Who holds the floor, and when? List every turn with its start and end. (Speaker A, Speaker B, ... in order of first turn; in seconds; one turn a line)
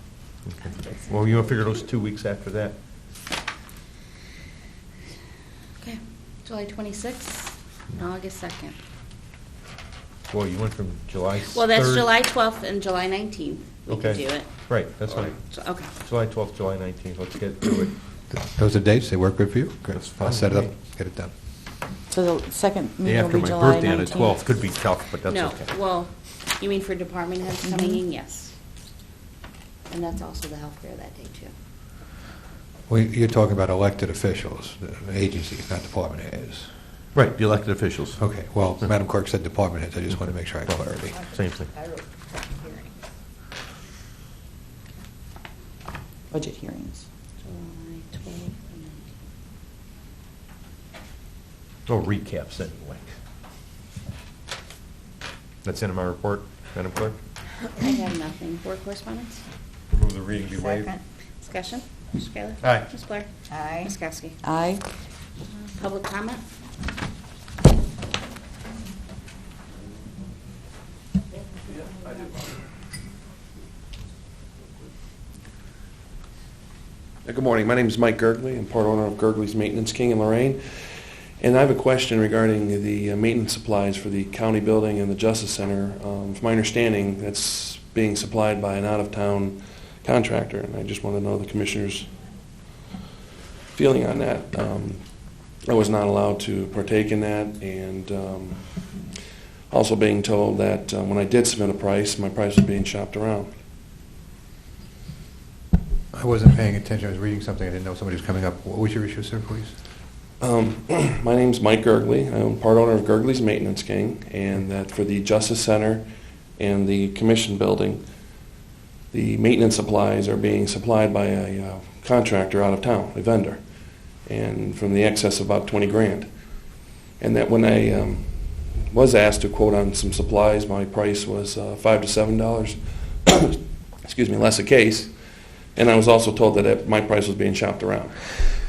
Speaker A: 0.5-2.8
Speaker B: 5.8-8.8
Speaker A: 10.3-12.1
Speaker B: 11.5-14.5
Speaker A: 13.9-17.9
Speaker B: 15.1-15.9
Speaker C: 18.3-21.3
Speaker A: 19.9-20.7
Speaker D: 22.1-24.4
Speaker A: 23.0-25.7
Speaker B: 25.2-28.5
Speaker D: 27.7-28.0
Speaker B: 29.9-31.5
Speaker C: 32.9-36.7
Speaker A: 37.1-38.2
Speaker C: 38.2-41.2
Speaker A: 40.7-41.7
Speaker E: 41.1-43.0
Speaker D: 46.3-47.1
Speaker B: 47.4-49.1
Speaker A: 51.9-53.0
Speaker A: 55.6-57.2
Speaker B: 57.8-59.4
Speaker A: 59.9-60.9
Speaker E: 60.4-61.0
Speaker B: 61.4-64.4
Speaker A: 62.6-62.9
Speaker E: 63.5-63.9
Speaker D: 64.4-64.8
Speaker B: 65.8-66.4
Speaker F: 77.2-92.1
Speaker F: 93.7-95.0
Speaker F: 95.7-98.7
Speaker F: 99.7-103.5
Speaker C: 106.1-109.8
Speaker F: 110.4-116.0
Speaker F: 116.6-118.0
Speaker F: 119.1-123.6
Speaker F: 124.3-126.3
Speaker F: 127.2-135.1
Speaker F: 135.8-138.1